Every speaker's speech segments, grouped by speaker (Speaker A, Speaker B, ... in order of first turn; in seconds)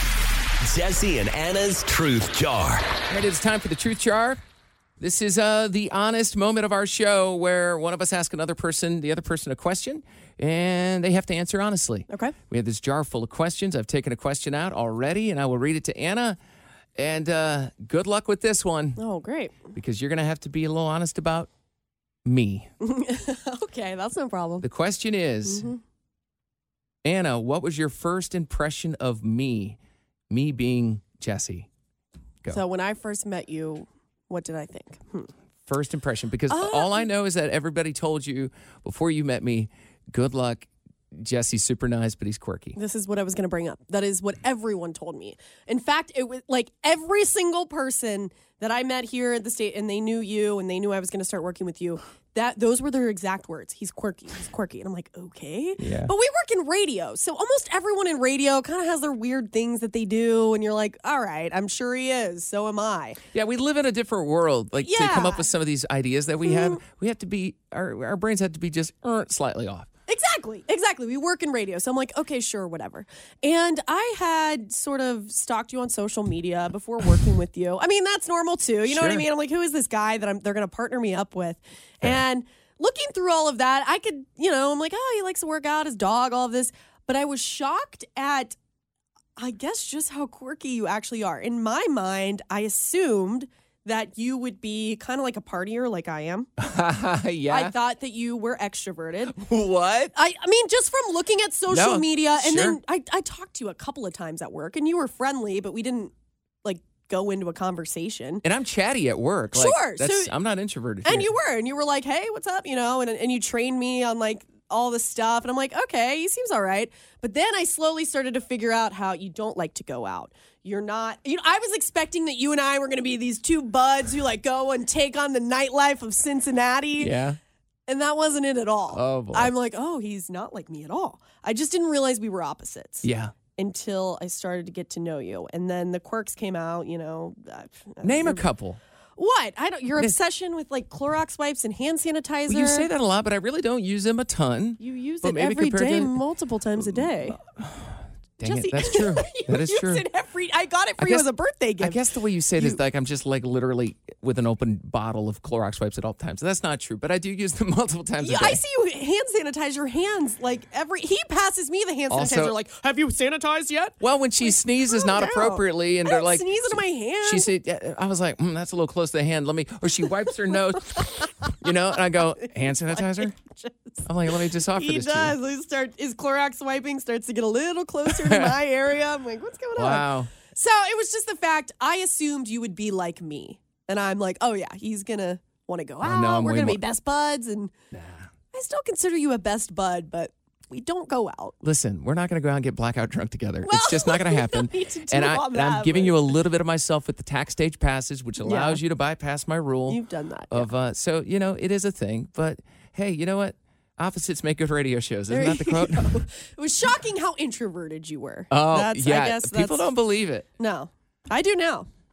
Speaker A: 0.6-2.9
Speaker B: 3.1-4.4, 5.0-16.4, 16.9-19.0, 19.7-21.5, 22.2-22.7, 24.6-25.7, 27.0-29.8, 30.3-31.7, 35.6-42.8, 55.8-56.1, 63.3-69.9, 78.8-79.2, 96.6-97.7, 99.3-100.1, 101.7-102.8, 108.4-111.3, 127.0-127.4, 128.9-129.5, 133.0-133.3, 138.0-138.8, 142.5-146.2, 146.8-150.0, 151.0-151.3, 151.8-158.6, 162.1-162.5, 164.0-173.4, 174.0-175.3, 178.1-178.5, 179.8-180.3, 186.0-186.8, 187.9-188.3, 191.6-206.1, 208.5-210.5
Speaker C: 12.1-12.3, 19.0-19.6, 22.8-24.6, 25.5-25.8, 32.5-35.3, 36.5-37.0, 42.8-63.2, 64.8-65.5, 66.4-66.8, 70.1-88.6, 89.4-96.5, 97.5-99.4, 100.1-106.1, 106.6-108.4, 109.5-110.3, 111.0-127.1, 127.9-138.4, 139.2-142.9, 144.8-147.4, 148.4-152.0, 158.2-167.5, 172.4-187.7, 188.5-191.5, 193.6-196.3, 198.4-198.8, 199.9-200.7, 205.3-209.9, 210.6-211.9